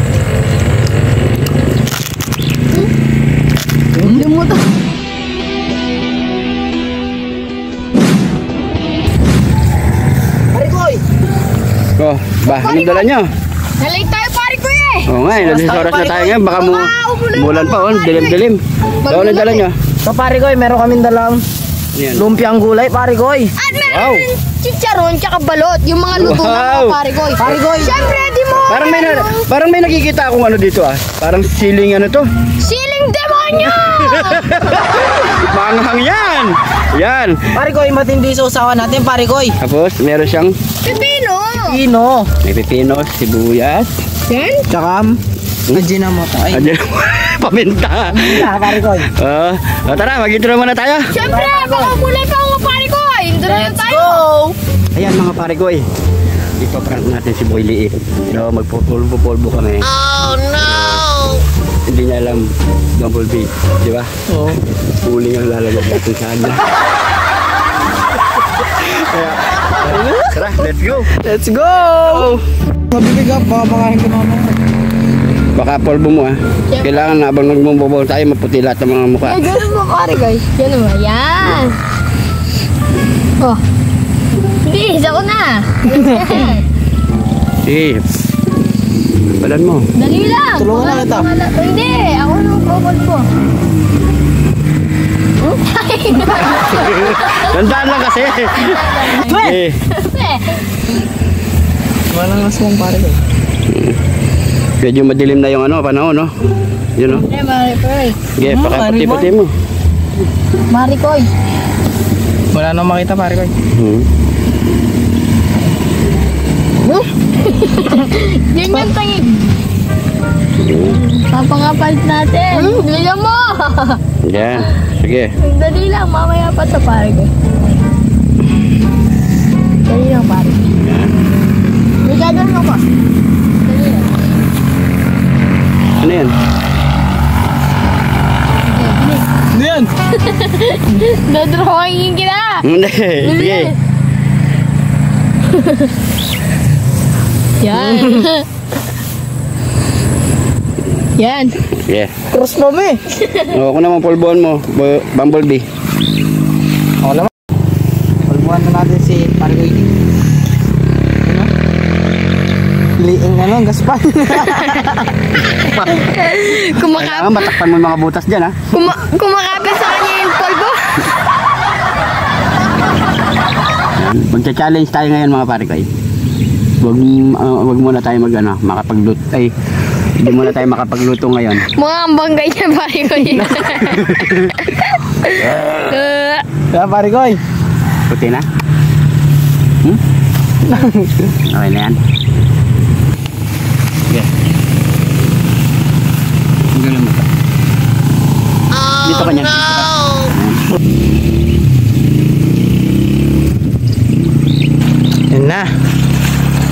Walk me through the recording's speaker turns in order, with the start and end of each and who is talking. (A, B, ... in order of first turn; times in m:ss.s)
0:04.0-0:04.2 A
0:04.0-0:04.6 B
0:10.5-0:11.0 A
0:12.0-0:13.3 C
0:12.4-0:13.1 B
0:13.8-0:15.1 B
0:15.0-0:19.8 C
0:15.3-0:16.3 A
0:16.0-0:18.4 B
0:19.0-0:19.6 B
0:20.0-0:21.4 A
0:21.9-0:22.3 C
0:22.1-0:23.5 A
0:23.6-0:29.5 B
0:23.8-0:24.3 C
0:26.1-0:27.0 C
0:27.4-0:28.0 A
0:28.6-0:32.3 C
0:32.6-0:34.8 B
0:33.6-0:37.4 C
0:37.5-0:39.6 A
0:39.6-0:40.5 C
0:40.8-0:41.8 B
0:41.5-0:42.3 A
0:42.4-0:43.9 C
0:44.3-0:44.7 B
0:44.7-0:45.2 A
0:45.7-0:46.7 A
0:46.5-0:51.1 C
0:48.1-0:49.1 A
0:51.1-0:54.2 B
0:51.2-0:52.0 A
0:53.5-0:54.5 A
0:54.9-0:55.8 C
0:56.6-1:01.2 C
1:01.9-1:04.1 C
1:04.3-1:04.6 A
1:04.8-1:06.7 C
1:08.6-1:11.1 C
1:09.8-1:12.4 A
1:12.0-1:12.4 C
1:12.9-1:14.6 A
1:15.5-1:19.6 C
1:16.7-1:17.1 B
1:19.2-1:21.8 B
1:24.6-1:26.7 B
1:27.6-1:28.0 C
1:29.4-1:29.9 C
1:29.9-1:33.3 B
1:30.6-1:31.3 A
1:35.4-1:37.9 B
1:36.7-1:39.8 C
1:38.5-1:40.6 B
1:39.3-1:39.6 A
1:42.1-1:43.2 A
1:43.7-1:44.0 C
1:44.8-1:46.3 C
1:47.0-1:47.3 C
1:47.1-1:48.2 B
1:48.4-1:49.5 C
1:48.4-1:49.3 A
1:50.7-1:51.3 B
1:52.5-1:53.5 A
1:53.7-1:54.1 C
1:57.3-1:59.4 B
2:00.6-2:01.1 C
2:01.1-2:04.0 B
2:02.5-2:02.8 A
2:04.2-2:05.3 C
2:05.4-2:07.3 B
2:09.8-2:10.6 B
2:10.7-2:11.1 C
2:12.0-2:12.8 B
2:13.6-2:14.1 B
2:16.0-2:16.3 C
2:18.7-2:19.2 B
2:19.5-2:19.9 A
2:20.1-2:22.6 B
2:22.6-2:23.7 C
2:23.2-2:23.8 B
2:25.5-2:25.9 B
2:27.6-2:28.5 B
2:27.7-2:28.2 C
2:31.2-2:31.6 B
2:31.7-2:32.1 C
2:32.3-2:33.0 A
2:33.2-2:33.5 B
2:33.5-2:35.6 C
2:37.0-2:37.3 A
2:38.2-2:39.9 A
2:41.2-2:41.5 A
2:43.0-2:45.1 A
2:45.6-2:46.1 C
2:45.9-2:47.6 B
2:46.8-2:48.6 C
2:48.7-2:51.1 B
2:54.0-2:55.9 C
2:56.8-2:59.5 C
3:00.2-3:01.7 C
3:01.7-3:06.4 B
3:03.4-3:04.5 C
3:06.7-3:07.4 A
3:08.1-3:08.4 C
3:10.7-3:11.2 A
3:11.4-3:12.0 C
3:16.7-3:17.2 C
3:19.0-3:20.6 C
3:25.3-3:25.7 A